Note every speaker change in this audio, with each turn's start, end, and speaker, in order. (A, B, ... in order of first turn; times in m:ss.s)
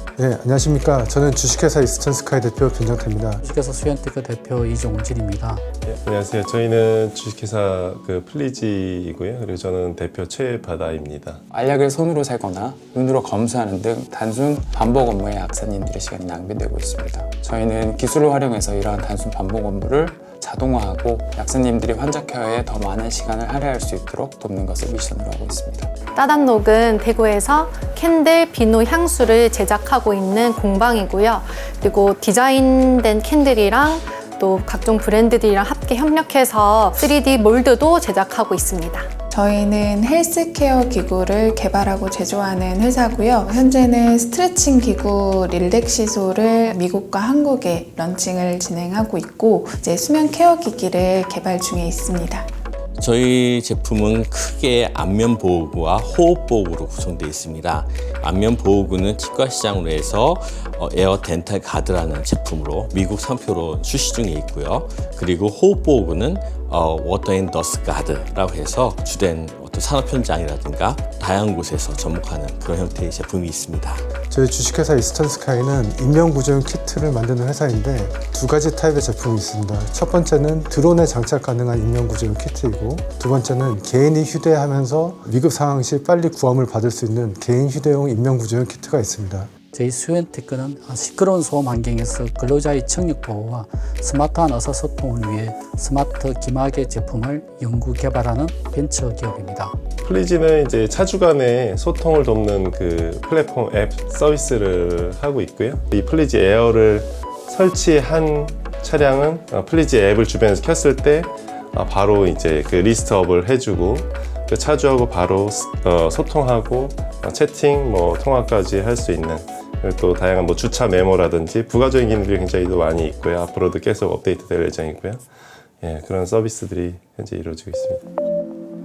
0:00.2-0:03.4 A
0:03.4-0:05.6 B
0:05.8-0:11.4 C
0:11.5-0:25.9 D
0:26.1-0:39.1 E
0:39.3-0:52.5 F
0:53.0-1:14.0 G
1:14.3-1:29.5 A
1:29.7-1:32.0 B
1:32.6-1:34.2 B
1:34.8-1:36.6 B
1:37.4-1:38.7 B
1:40.0-2:05.2 C
2:05.8-2:08.0 C